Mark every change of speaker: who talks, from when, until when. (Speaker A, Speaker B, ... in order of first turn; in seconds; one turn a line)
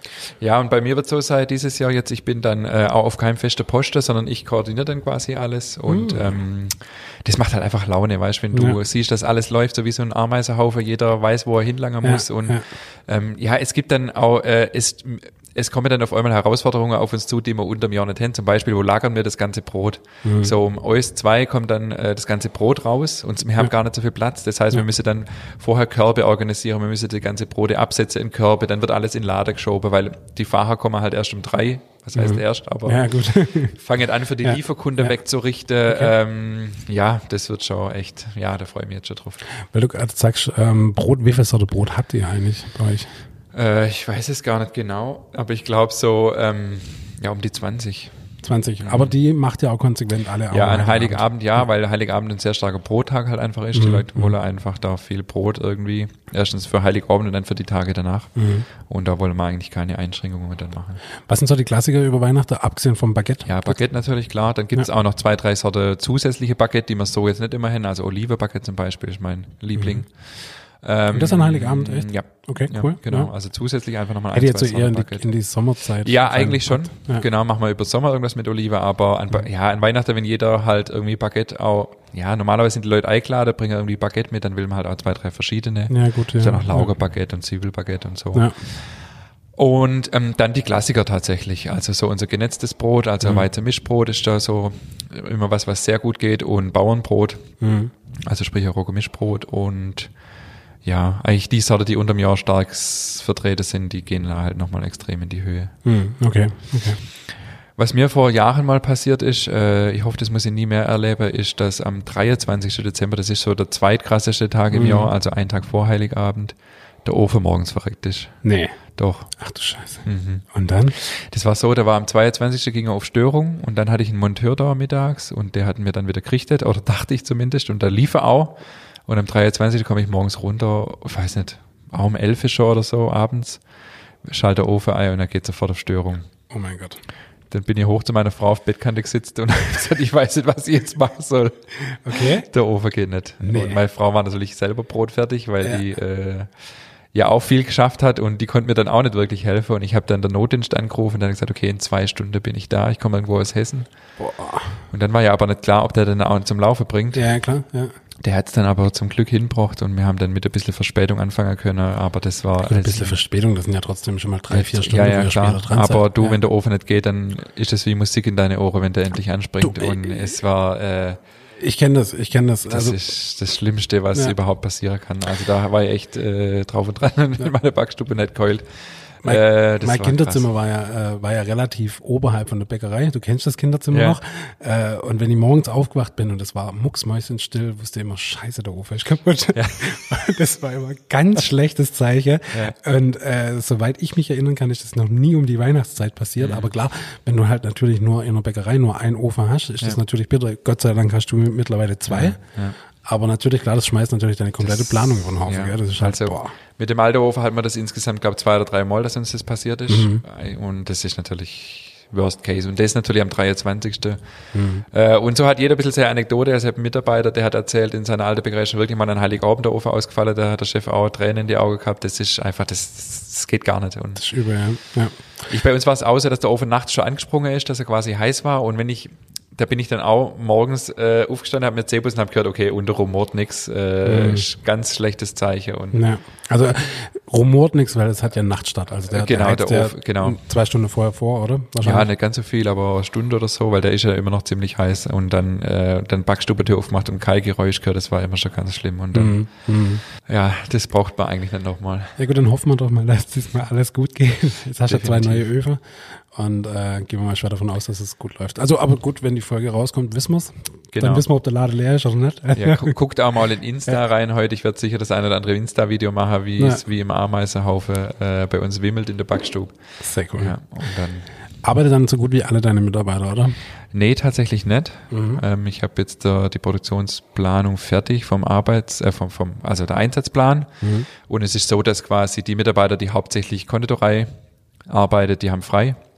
Speaker A: 0.2-39.4
Speaker B: 5.9-6.4
Speaker B: 8.5-8.8
Speaker B: 12.0-12.6
Speaker B: 20.2-20.5
Speaker B: 32.1-33.8
Speaker B: 34.4-35.2
Speaker B: 35.9-36.1
Speaker B: 39.7-43.1
Speaker A: 43.5-48.1
Speaker B: 48.4-51.2
Speaker A: 48.8-49.1
Speaker A: 50.5-61.0
Speaker B: 53.8-54.4
Speaker B: 58.4-58.6
Speaker B: 61.2-63.8
Speaker A: 63.5-75.3
Speaker B: 69.8-70.0
Speaker B: 71.1-73.3
Speaker B: 74.3-77.2
Speaker A: 76.0-97.5
Speaker B: 85.9-86.9
Speaker B: 97.6-97.9
Speaker A: 98.2-100.1
Speaker A: 100.8-105.7
Speaker B: 105.8-107.0
Speaker A: 107.8-118.4
Speaker B: 114.7-115.1
Speaker B: 118.4-118.8
Speaker A: 119.0-119.4
Speaker B: 119.3-121.0
Speaker A: 120.0-133.6
Speaker A: 134.2-136.3
Speaker B: 136.5-137.0
Speaker A: 137.5-153.9
Speaker B: 141.9-142.5
Speaker B: 143.4-143.8
Speaker B: 154.2-154.9
Speaker A: 154.9-157.2
Speaker B: 157.1-157.9
Speaker A: 158.2-163.2
Speaker B: 162.6-166.4
Speaker A: 164.5-171.2
Speaker B: 169.6-170.3
Speaker B: 171.6-173.0
Speaker A: 172.7-180.4
Speaker B: 179.2-202.4
Speaker A: 183.9-184.2
Speaker A: 189.5-189.8
Speaker A: 196.4-196.7
Speaker A: 202.1-202.8
Speaker B: 203.0-206.5
Speaker A: 204.6-214.2
Speaker B: 209.9-210.2
Speaker B: 214.5-214.8
Speaker A: 214.9-224.2
Speaker B: 224.2-225.2
Speaker A: 225.5-236.0
Speaker B: 234.1-234.5
Speaker B: 235.9-242.1
Speaker A: 239.1-240.4
Speaker A: 241.8-252.2
Speaker B: 249.1-250.0
Speaker B: 252.2-263.0
Speaker A: 254.9-255.4
Speaker A: 260.9-261.2
Speaker A: 262.6-269.8
Speaker B: 266.6-266.8
Speaker B: 270.0-270.6
Speaker A: 270.4-271.3
Speaker B: 271.6-273.6
Speaker A: 273.9-284.3
Speaker B: 275.1-275.4
Speaker B: 280.8-281.1
Speaker A: 284.9-286.0